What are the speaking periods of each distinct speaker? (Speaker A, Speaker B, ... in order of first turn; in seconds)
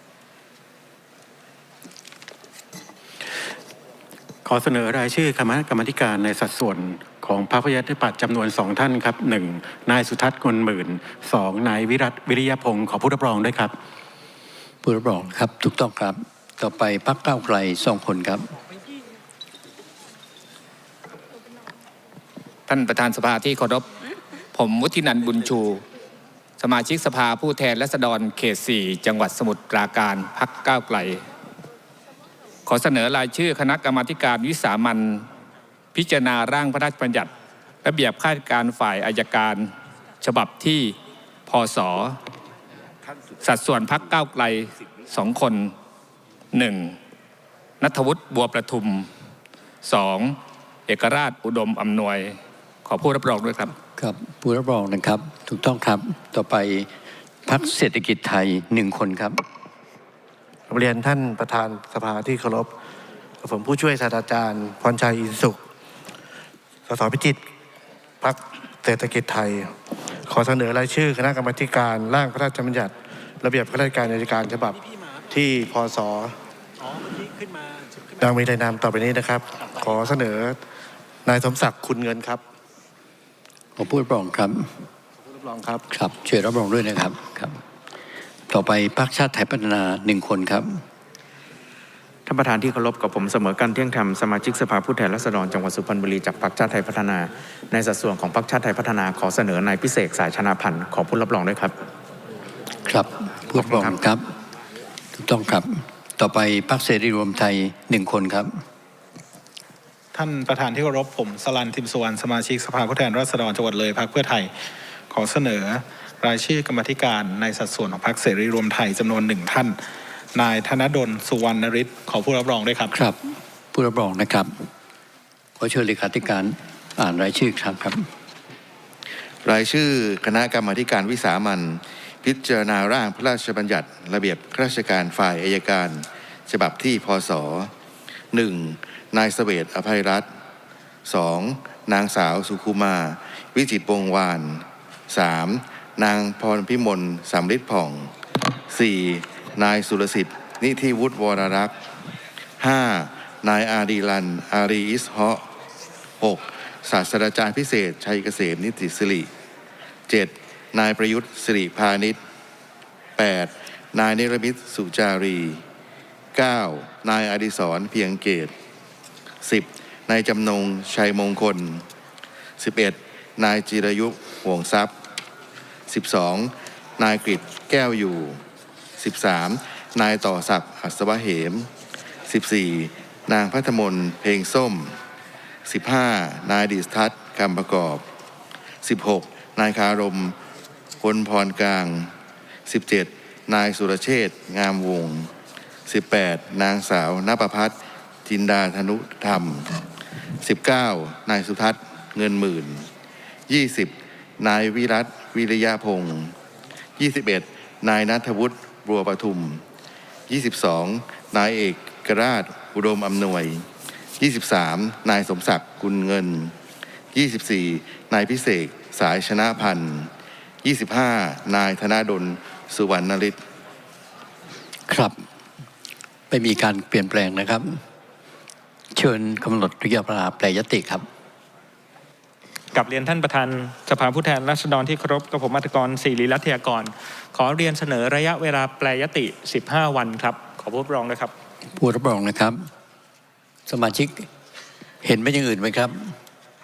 Speaker A: 4.4-13.7
Speaker B: 14.8-18.5, 54.0-56.9, 57.5-59.4, 83.8-84.7, 85.9-87.6, 88.5-90.8, 102.9-104.2, 105.2-108.5, 122.9-123.2, 123.7-124.7, 125.6-128.0, 224.9-225.2, 226.3-227.8, 228.9-231.0, 241.8-242.6, 243.7-244.3, 245.0-246.1
Speaker C: 22.7-23.9, 24.5-25.8, 26.6-31.2, 32.6-35.3, 35.9-37.3, 37.8-41.0, 41.5-42.2, 43.4-45.7, 46.5-47.0, 47.8-49.1, 49.8-53.7
Speaker D: 60.7-62.7, 63.4-65.6, 66.9-67.4, 68.2-74.8, 75.3-76.3, 78.2-80.6, 81.2-82.4, 85.4-85.8
Speaker E: 92.3-101.7
Speaker F: 110.1-114.5, 115.1-119.8, 120.3-122.9
Speaker G: 129.4-137.7, 138.3-140.3, 141.0-148.1, 148.7-151.7, 152.6-155.4, 156.2-159.3, 160.1-162.2, 163.2-165.6, 166.3-168.5, 169.4-171.8, 172.6-174.9, 175.9-178.4, 179.0-181.7, 182.2-184.9, 185.7-188.0, 188.8-190.3, 191.0-192.1, 192.7-195.3, 195.9-199.8, 200.4-202.9, 203.5-206.3, 207.0-209.6, 210.3-213.7, 214.2-216.5, 217.1-220.1, 220.6-223.4
Speaker H: 232.7-241.3